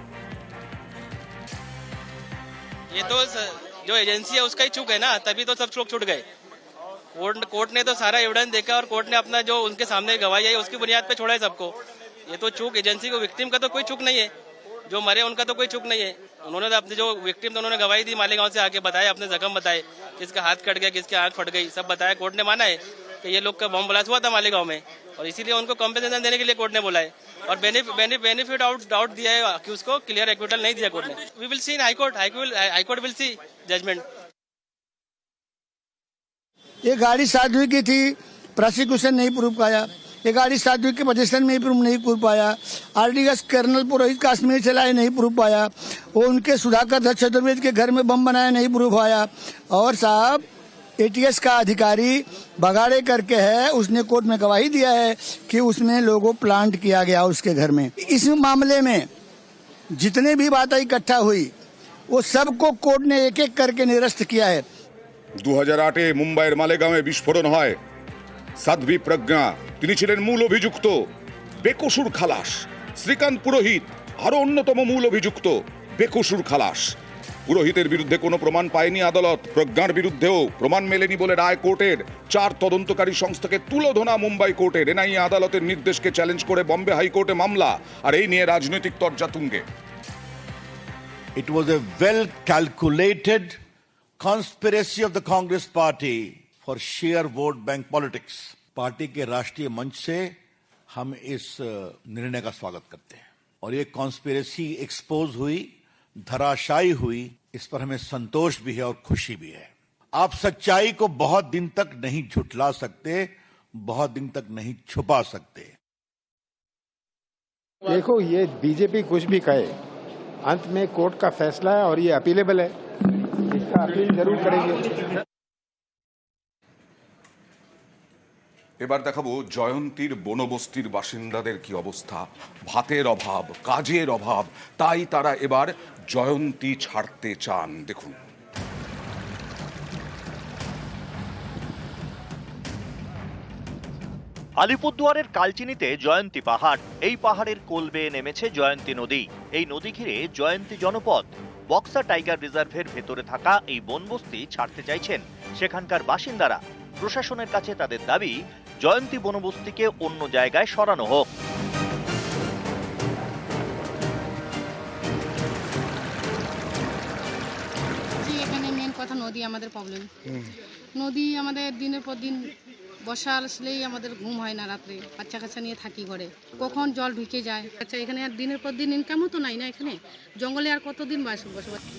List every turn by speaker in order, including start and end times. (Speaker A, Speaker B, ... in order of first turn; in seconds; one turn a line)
Speaker A: 2.9-6.2
Speaker A: 7.2-11.7
Speaker A: 12.3-14.3
Speaker A: 14.9-34.0
Speaker B: 36.8-50.4
Speaker B: 51.0-59.0
Speaker B: 60.0-61.5
Speaker B: 62.1-64.6
Speaker C: 65.4-67.8
Speaker C: 68.6-71.0
Speaker C: 71.6-76.9
Speaker C: 77.5-89.6
Speaker D: 91.3-93.5
Speaker D: 94.2-100.3
Speaker D: 100.9-105.7
Speaker D: 106.2-113.3
Speaker D: 113.8-115.7
Speaker E: 117.9-119.7
Speaker E: 120.4-122.7
Speaker E: 123.5-124.9
Speaker C: 128.8-138.1
Speaker F: 144.6-158.3
Speaker F: 158.8-161.3
Speaker G: 168.2-170.1
Speaker G: 170.9-172.5
Speaker G: 173.0-181.8